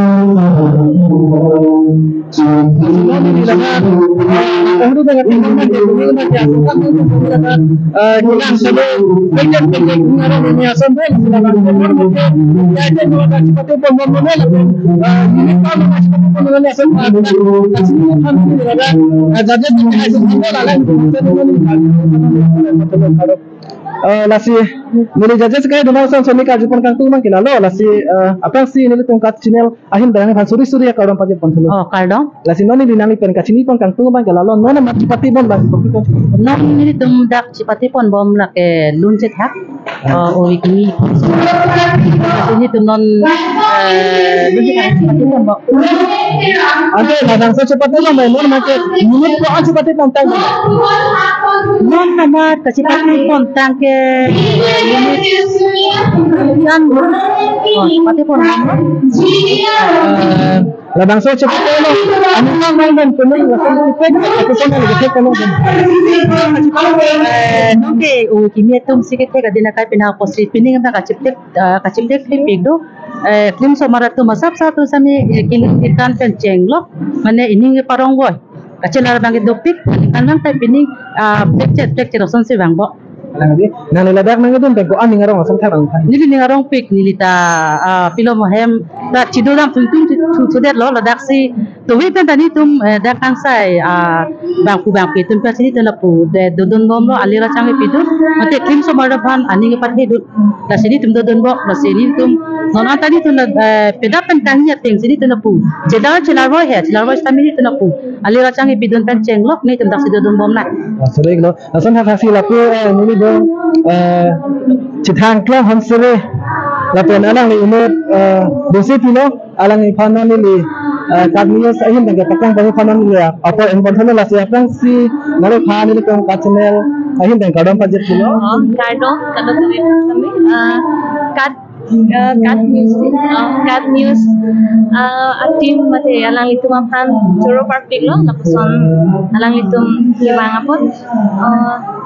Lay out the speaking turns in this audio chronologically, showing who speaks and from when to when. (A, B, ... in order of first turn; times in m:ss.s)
0:02.4-0:23.4 A
0:24.0-0:31.8 A
0:31.7-0:32.3 B
0:32.4-0:36.3 A
0:36.4-0:39.5 B
0:40.1-0:46.5 B
0:46.9-0:50.6 A
0:51.8-1:00.0 B
0:59.9-1:06.0 A
1:06.2-1:22.9 B
1:23.4-1:26.1 A
1:26.1-1:50.7 B
1:51.0-1:56.2 A
1:56.9-2:08.4 A
2:08.4-2:11.6 C
2:12.1-2:14.3 C
2:14.9-2:21.8 C